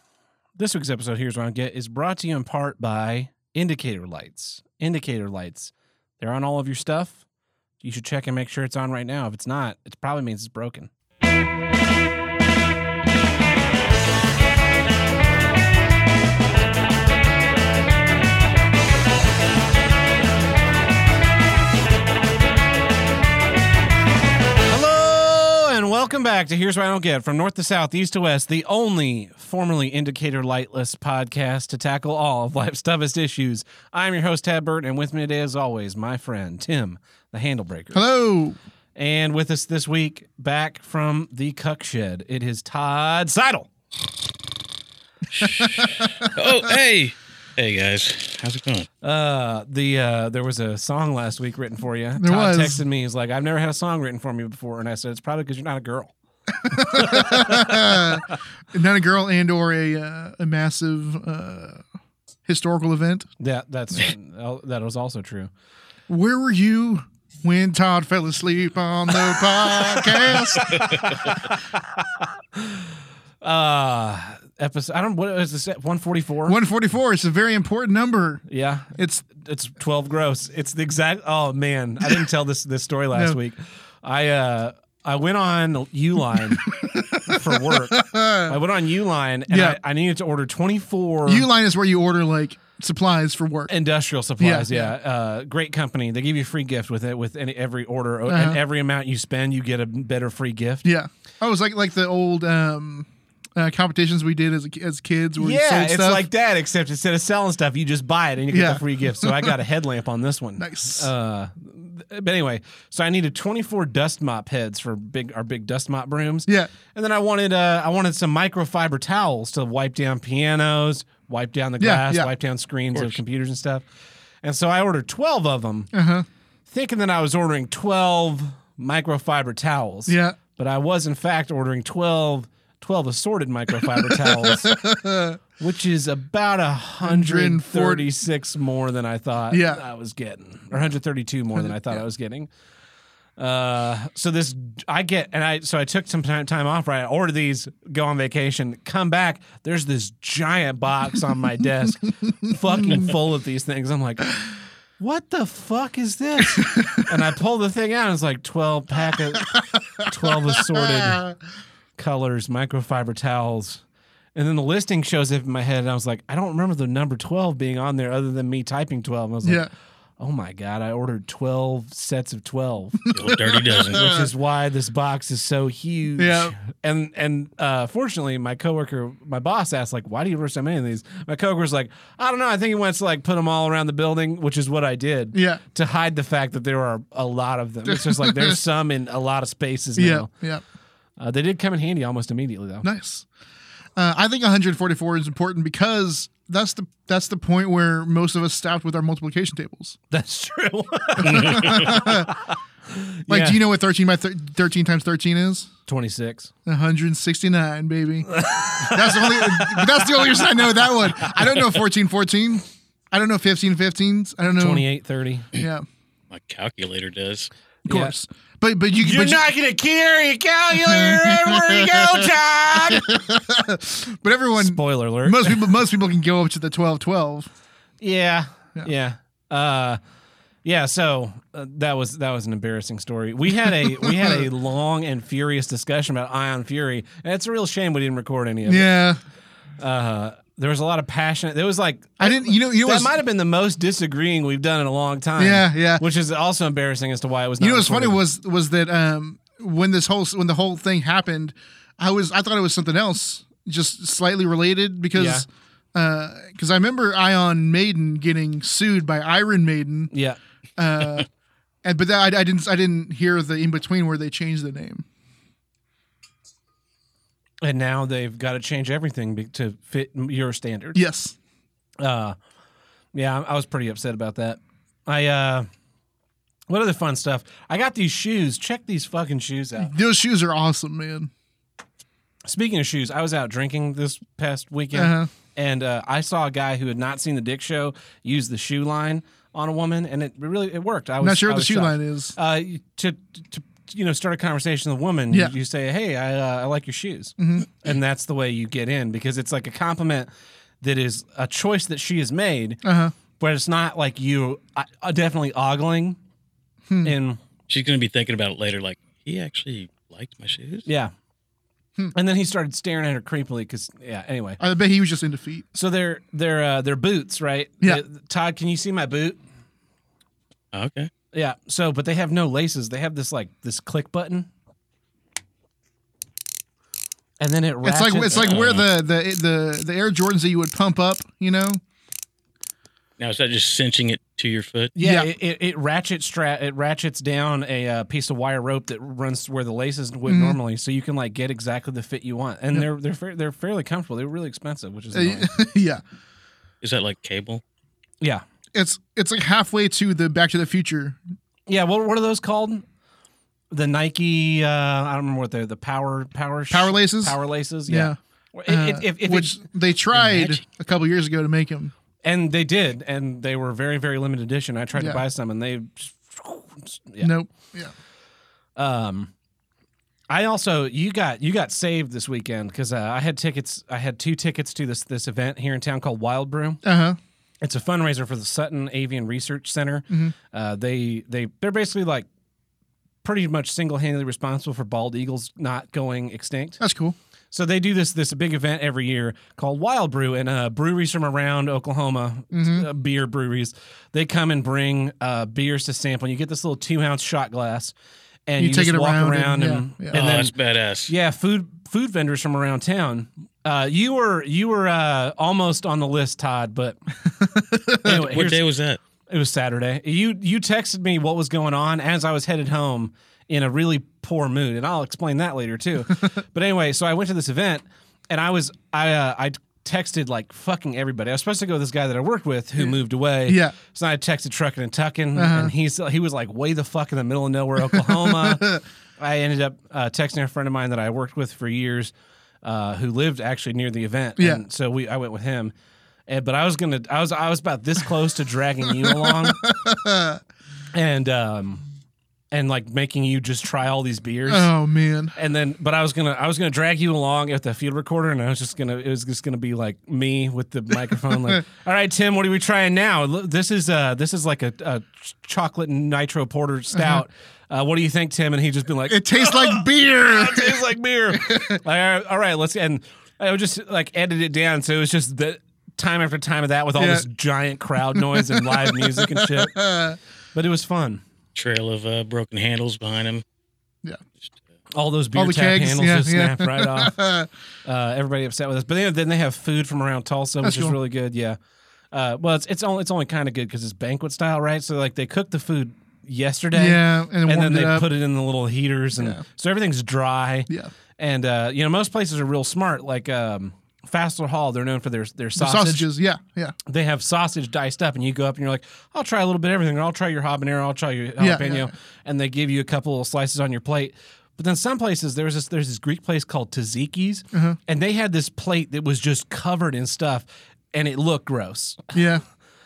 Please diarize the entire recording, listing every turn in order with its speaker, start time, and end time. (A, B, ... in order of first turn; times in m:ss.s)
0:00.6-0:07.2 A
0:07.8-0:10.9 A
0:24.7-0:38.0 A
0:37.9-0:38.6 B
0:39.0-0:43.7 A
0:45.3-0:48.9 C
0:45.4-0:45.8 B
0:49.0-0:56.1 A
0:52.2-0:52.8 B
0:56.6-1:01.8 B
0:56.7-0:58.2 A
1:02.4-1:03.3 B
1:03.4-1:05.5 A
1:06.1-1:11.3 B
1:09.4-1:11.6 A
1:12.6-1:12.9 A
1:13.4-1:16.6 A
1:16.4-1:18.4 B
1:18.5-1:31.5 A
1:18.9-1:19.2 B
1:26.6-1:28.6 B
1:29.5-1:29.8 B
1:31.2-1:33.7 B
1:33.7-1:40.8 A
1:34.4-1:34.9 B
1:38.3-1:38.6 B
1:40.8-1:46.3 B
1:45.4-2:03.8 A
1:48.5-1:49.6 B
1:50.6-1:51.1 B
2:01.8-2:02.3 B
2:04.4-2:05.9 A
2:05.9-2:06.2 B
2:06.7-2:14.8 A
2:10.1-2:10.4 B
2:14.0-2:15.4 B
2:15.6-2:22.5 A
2:17.0-2:18.1 B
2:19.5-2:19.8 B
2:21.6-2:22.0 B
2:23.4-2:34.4 A
2:32.8-2:33.0 B
2:35.0-2:41.2 A
2:36.6-2:37.0 B
2:39.3-2:39.6 B
2:40.2-2:41.3 B
2:42.0-2:43.8 A
2:44.3-2:49.6 A
2:49.4-2:49.7 B
2:50.2-2:53.1 A
2:53.0-2:54.2 B
2:53.1-2:54.2 C
2:54.0-3:10.3 A
2:56.2-2:56.5 B
3:05.3-3:05.6 B
3:07.8-3:08.6 B
3:10.0-3:10.6 B
3:11.2-3:12.8 A
3:12.8-3:13.2 B
3:14.0-3:20.0 B
3:20.1-3:23.6 A
3:21.2-3:22.3 B
3:21.2-3:22.0 C
3:23.3-3:25.7 B
3:25.9-3:26.5 A
3:26.6-3:34.8 B
3:28.3-3:31.8 A
3:34.5-3:35.5 A
3:35.5-3:35.8 B
3:36.3-3:37.5 C
3:37.8-3:39.4 B
3:37.9-3:38.1 A
3:39.0-3:43.1 A
3:40.7-3:47.5 B
3:44.6-3:45.6 A
3:48.0-3:50.0 A
3:50.6-3:59.0 A
3:53.6-3:54.4 B
3:58.6-3:59.2 B
3:59.8-4:08.2 A
4:02.2-4:03.2 B
4:05.4-4:06.0 B
4:07.6-4:20.1 B
4:15.1-4:15.4 A
4:20.1-4:20.4 A
4:20.8-4:21.3 B
4:21.8-4:25.0 B
4:27.6-4:31.0 A
4:30.9-4:31.4 B
4:32.0-4:32.4 A
4:33.1-4:35.7 A
4:36.7-4:39.9 A
4:39.8-4:41.3 B
4:42.4-5:00.3 A
4:44.9-4:45.3 B
4:51.2-4:52.4 B
4:57.4-4:57.7 B
5:00.8-5:02.8 A
5:02.8-5:03.1 B
5:03.4-5:06.2 A
5:06.9-5:07.1 B
5:07.0-5:07.4 A
5:07.7-5:10.9 C
5:10.8-5:11.1 A
5:12.1-5:14.6 A
5:14.6-5:15.6 B
5:15.7-5:19.4 A
5:20.7-5:21.1 C
5:21.3-5:24.5 A
5:27.4-5:28.8 A
5:27.8-5:31.8 B
5:28.3-5:28.6 C
5:33.2-5:34.9 C
5:35.0-5:45.5 A
5:35.0-5:35.3 B
5:40.2-5:40.6 B
5:45.1-5:46.0 B
5:46.8-5:47.6 C
5:48.7-5:51.2 B
5:51.7-5:52.8 A
5:53.7-5:59.6 A
5:56.7-6:01.9 B
6:00.2-6:00.5 A
6:02.2-6:07.3 A
6:04.9-6:05.2 B
6:07.2-6:07.9 B
6:08.8-6:09.3 A
6:10.3-6:16.8 A
6:16.8-6:17.2 B
6:17.6-6:22.3 A
6:20.1-6:20.3 B
6:23.2-6:26.8 A
6:26.8-6:27.2 B
6:27.5-6:37.9 A
6:32.5-6:32.8 B
6:38.4-6:40.5 A
6:38.6-6:40.2 B
6:40.1-6:41.1 C
6:41.1-6:47.0 A
6:47.2-6:48.2 B
6:48.0-6:48.6 A
6:48.0-6:49.0 C
6:49.3-7:15.7 A
7:03.4-7:03.7 B
7:05.3-7:05.7 B
7:07.8-7:08.8 B
7:14.4-7:14.6 B
7:16.3-7:19.6 A
7:18.9-7:20.4 B
7:20.9-7:21.8 A
7:22.5-7:24.7 A
7:24.4-7:25.3 B
7:25.3-7:49.8 A
7:36.9-7:37.2 B
7:39.1-7:41.8 B
7:47.0-7:47.3 B
7:48.0-7:50.2 B
7:50.5-7:51.2 A
7:51.5-7:53.4 C
7:54.9-7:57.2 A
7:55.3-7:57.5 B
7:57.8-8:01.6 A
8:00.6-8:01.0 B
8:02.1-8:16.1 A
8:06.7-8:08.1 B
8:09.1-8:09.4 B
8:15.6-8:16.7 B
8:16.8-8:32.1 A
8:21.4-8:21.9 B
8:27.5-8:27.8 B
8:32.1-8:32.4 B